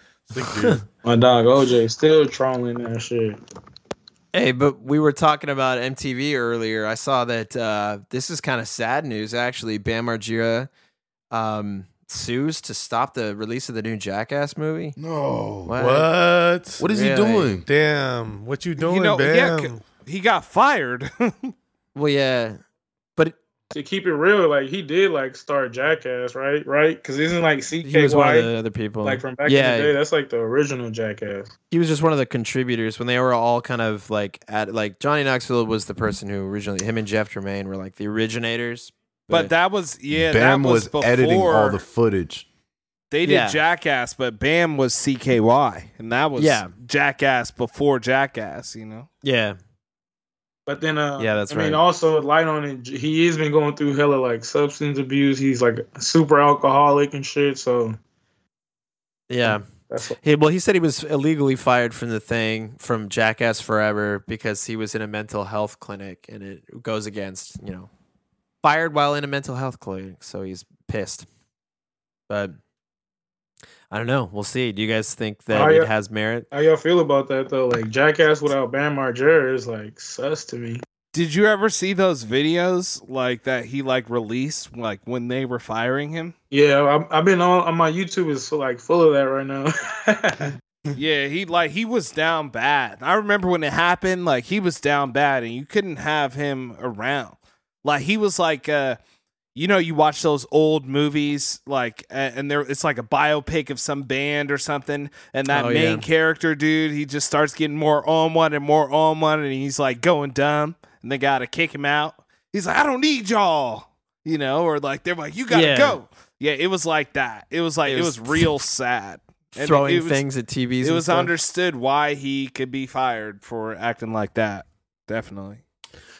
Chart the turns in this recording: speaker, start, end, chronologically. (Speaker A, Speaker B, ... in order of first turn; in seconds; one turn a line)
Speaker A: 0.3-0.8
Speaker B: 0.4-0.8
Speaker C: 1.1-3.4
Speaker B: 4.3-10.7
Speaker B: 11.3-15.0
Speaker D: 15.0-15.7
Speaker B: 15.7-16.1
Speaker A: 15.8-16.9
Speaker D: 16.8-17.7
Speaker B: 16.9-17.5
Speaker A: 17.6-19.9
Speaker E: 18.8-21.5
Speaker B: 21.9-22.6
Speaker C: 23.7-28.5
Speaker B: 27.8-29.9
Speaker C: 29.0-31.5
Speaker B: 31.7-39.5
Speaker E: 39.3-41.8
Speaker D: 40.1-42.5
Speaker E: 43.1-49.1
Speaker B: 43.2-43.6
Speaker B: 46.4-46.7
Speaker B: 49.2-49.6
Speaker C: 50.7-58.0
Speaker B: 51.2-51.8
Speaker B: 59.3-59.7
Speaker C: 59.4-60.2
Speaker B: 60.2-67.9
Speaker B: 68.6-71.3
Speaker B: 72.3-72.6
Speaker B: 73.9-76.5
Speaker C: 75.5-75.9
Speaker C: 76.5-80.8
Speaker E: 81.1-86.3
Speaker C: 86.5-90.5
Speaker E: 91.0-99.0
Speaker E: 99.5-120.2
Speaker B: 105.5-106.1
Speaker B: 115.5-116.0
Speaker B: 117.9-118.5
Speaker B: 119.6-121.3
Speaker E: 120.8-125.6